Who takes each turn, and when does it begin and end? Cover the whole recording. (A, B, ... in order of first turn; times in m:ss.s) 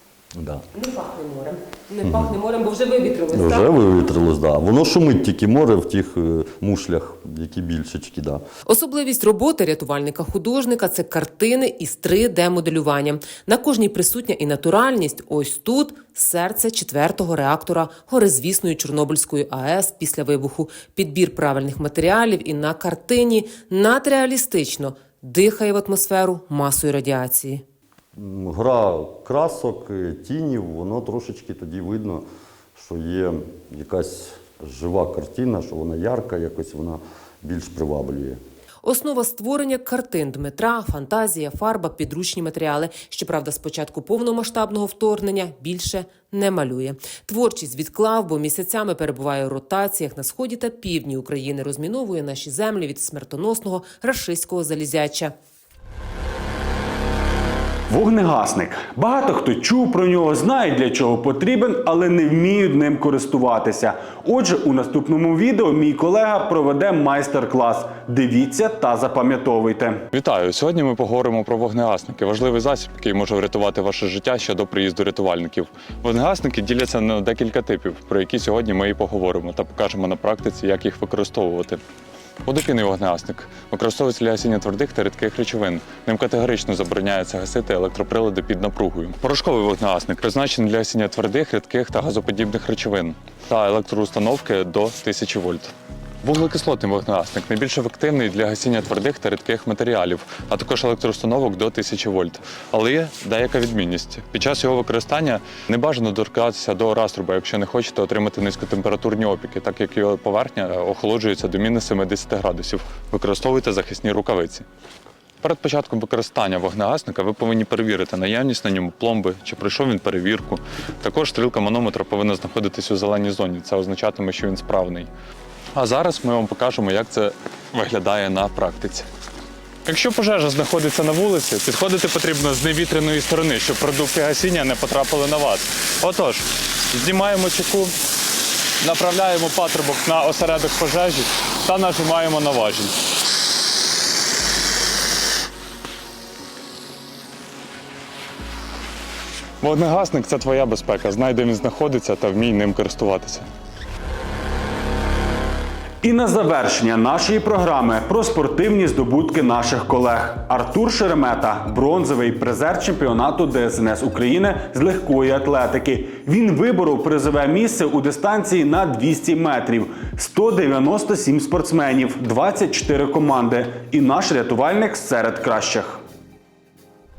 0:00.3-0:00.6 A
0:00.7-0:03.7 B
0:02.0-0:02.3 A
0:03.3-0:08.4 A
0:08.6-0:27.6 B
0:28.2-0:32.2 A
0:32.8-0:38.4 A
0:38.8-0:55.3 B
0:57.9-1:10.0 C
1:10.1-1:21.8 D
1:22.4-1:35.7 D
1:36.2-1:54.6 D
1:55.4-2:05.1 D
2:05.7-2:09.1 D
2:09.8-2:17.9 D
2:18.8-2:22.9 D
2:29.6-2:33.5 D
2:36.0-2:56.0 C